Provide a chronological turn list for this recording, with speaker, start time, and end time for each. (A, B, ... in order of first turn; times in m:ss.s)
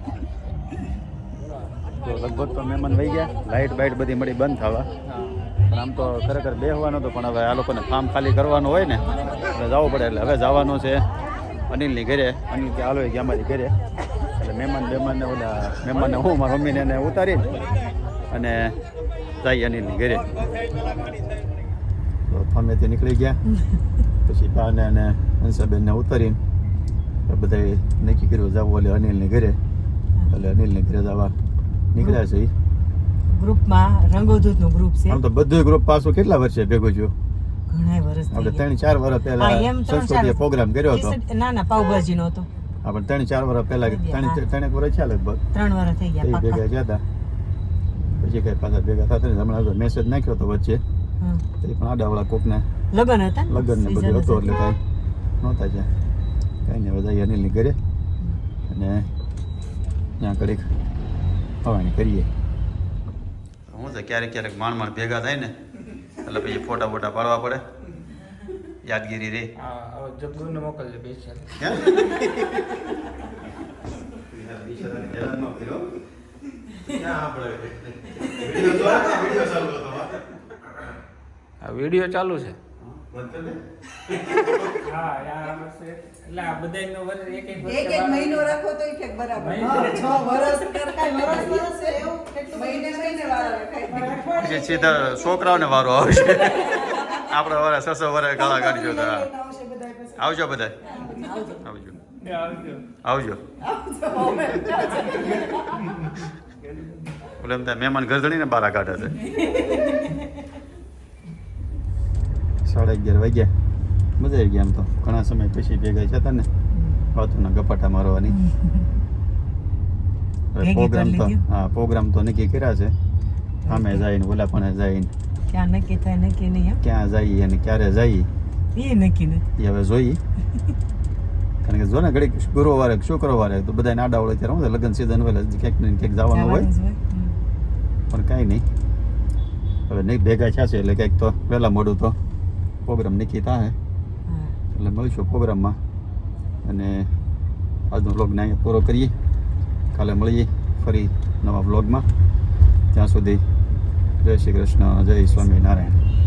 0:02.0-0:04.9 A
0:05.7-0:11.0 A
0:11.7-0:13.7 A
0:14.4-0:17.7 A
0:18.3-0:18.7 A
0:19.4-0:20.3 A
0:22.3-0:23.4 A
0:24.2-0:26.4 A
0:27.3-0:29.6 A
0:30.3-0:31.3 A
0:31.9-0:32.5 A
0:33.3-0:35.2 B
0:35.1-0:37.1 A
0:37.7-0:38.6 B
0:38.3-0:41.2 A
0:39.4-0:40.4 B
0:40.9-0:42.5 B
0:42.8-0:45.4 A
0:43.8-0:44.4 B
0:45.5-0:46.6 B
0:46.2-0:47.0 A
0:48.2-0:50.8 A
0:51.6-0:52.6 A
0:52.9-0:54.6 B
0:53.5-0:54.8 A
0:55.4-0:55.9 A
0:56.6-0:57.8 A
0:58.7-0:59.1 A
1:00.2-1:00.7 A
1:01.6-1:02.3 A
1:03.7-1:05.5 A
1:06.2-1:07.6 A
1:08.8-1:09.5 A
1:09.6-1:11.5 C
1:11.6-1:12.7 A
1:14.3-1:15.9 A
1:16.8-1:20.2 A
1:21.6-1:22.6 C
1:22.8-1:23.6 A
1:24.8-1:28.6 C
1:27.6-1:34.8 D
1:29.4-1:30.5 C
1:34.3-1:39.3 A
1:38.4-1:40.2 D
1:40.2-1:40.7 A
1:41.6-1:42.0 A
1:42.2-1:42.8 C
1:43.0-1:43.4 A
1:43.7-1:45.5 D
1:47.4-1:49.2 A
1:52.6-1:53.5 A
1:54.2-1:56.5 A
1:56.7-1:57.1 B
1:57.1-1:58.3 A
1:58.4-1:58.7 B
2:00.5-2:02.9 A
2:00.6-2:01.4 B
2:03.7-2:03.9 B
2:03.7-2:05.1 A
2:05.5-2:06.8 B
2:06.8-2:08.3 A
2:08.7-2:09.4 B
2:09.6-2:10.2 A
2:11.6-2:16.7 A
2:16.3-2:17.4 B
2:18.1-2:18.6 A
2:19.9-2:22.2 A
2:22.8-2:23.7 A
2:24.3-2:24.6 B
2:24.7-2:25.8 A
2:26.6-2:27.1 A
2:27.9-2:29.1 A
2:29.9-2:32.0 A
2:32.9-2:33.4 A
2:34.2-2:36.0 A